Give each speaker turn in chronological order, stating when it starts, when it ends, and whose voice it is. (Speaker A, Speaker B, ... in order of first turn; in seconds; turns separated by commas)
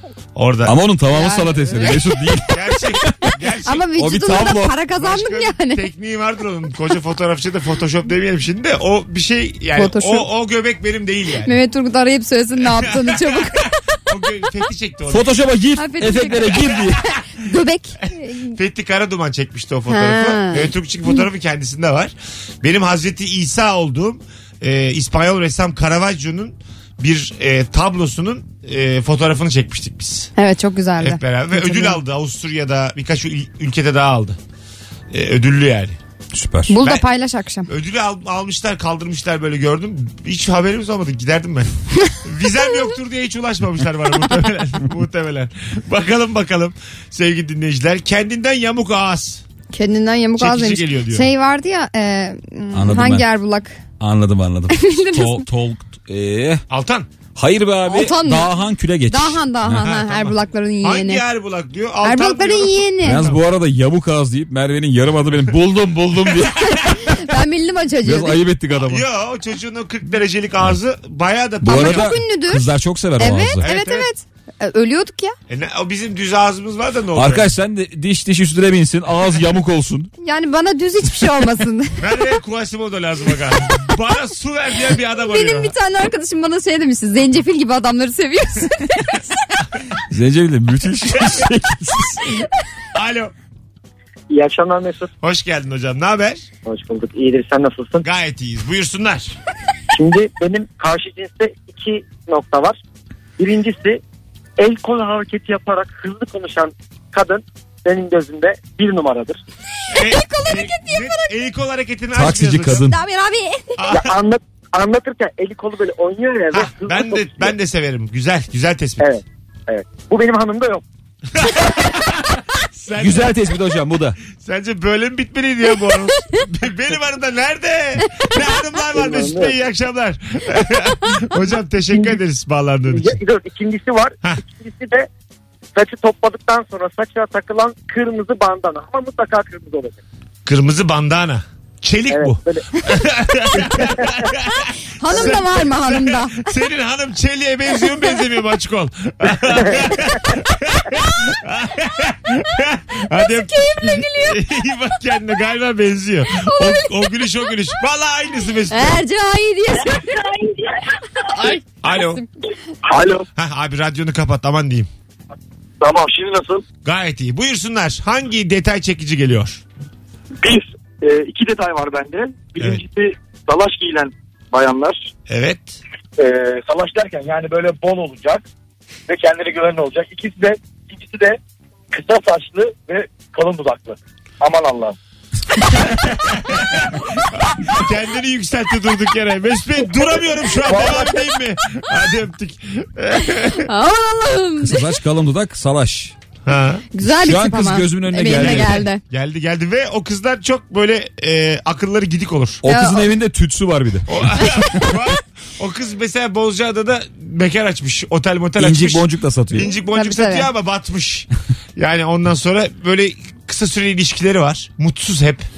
Speaker A: 0.3-0.8, Speaker B: 0.7-3.3, Speaker C: 1.1-2.3, Speaker A: 2.5-11.6, Speaker C: 3.6-5.9, Speaker B: 4.0-4.8, Speaker C: 9.8-10.3, Speaker C: 11.4-13.7, Speaker A: 12.6-15.3, Speaker B: 15.1-17.0, Speaker C: 15.8-18.6, Speaker A: 18.5-30.3, Speaker C: 19.9-20.7, Speaker C: 30.4-32.0, Speaker A: 31.0-34.4, Speaker A: 35.1-36.0, Speaker B: 36.3-36.8, Speaker C: 36.7-37.7, Speaker A: 37.7-49.4, Speaker C: 49.7-53.8, Speaker A: 50.4-51.3, Speaker B: 52.7-53.3, Speaker B: 54.0-56.6, Speaker C: 54.7-55.4, Speaker A: 56.7-57.1, Speaker B: 57.4-59.8, Speaker C: 57.9-58.5, Speaker C: 59.1-61.2, Speaker A: 59.8-63.4, Speaker C: 62.0-63.3, Speaker B: 63.0-66.9, Speaker C: 66.7-68.4, Speaker B: 68.0-69.0, Speaker A: 68.8-72.2, Speaker B: 71.6-73.7, Speaker C: 71.7-75.3, Speaker A: 73.6-74.1, Speaker A: 75.5-77.5, Speaker B: 77.2-80.1, Speaker C: 80.2-82.0, Speaker A: 82.0-85.8, Speaker C: 85.2-89.4, Speaker B: 90.1-92.4, Speaker A: 93.0-93.3, Speaker D: 94.3-95.1, Speaker A: 95.2-96.5, Speaker D: 96.7-98.0, Speaker A: 98.0-99.4, Speaker D: 99.9-102.8, Speaker D: 103.4-104.0, Speaker D: 104.6-109.4, Speaker C: 109.9-111.3, Speaker A: 109.9-112.8, Speaker B: 112.2-113.0, Speaker C: 112.7-113.8, Speaker A: 113.8-114.2, Speaker D: 113.9-117.5, Speaker A: 116.5-119.1, Speaker D: 119.0-120.8, Speaker A: 121.3-123.4, Speaker B: 123.0-124.2, Speaker A: 124.3-133.2, Speaker D: 128.9-129.5, Speaker D: 132.9-135.1, Speaker D: 135.8-140.0, Speaker A: 140.5-159.0, Speaker D: 142.1-142.8, Speaker D: 143.6-144.3, Speaker C: 145.0-146.5, Speaker D: 149.5-150.1, Speaker C: 153.1-154.5, Speaker C: 156.3-157.3, Speaker C: 158.7-160.4, Speaker C: 161.3-162.2, Speaker A: 161.8-162.2, Speaker A: 163.4-164.9, Speaker E: 165.8-166.6, Speaker A: 166.8-169.6, Speaker E: 170.4-175.1, Speaker A: 175.3-175.8, Speaker E: 176.2-178.4, Speaker E: 179.1-181.4, Speaker E: 181.9-184.9, Speaker A: 185.7-193.7, Speaker E: 190.7-191.1, Speaker C: 193.7-194.9, Speaker B: 194.6-196.1, Speaker A: 196.5-196.8, Speaker C: 196.9-199.0, Speaker B: 197.1-198.8, Speaker A: 198.3-202.6, Speaker B: 202.6-204.9, Speaker C: 202.7-203.1, Speaker A: 204.1-215.5, Speaker B: 208.6-209.7, Speaker C: 209.9-210.5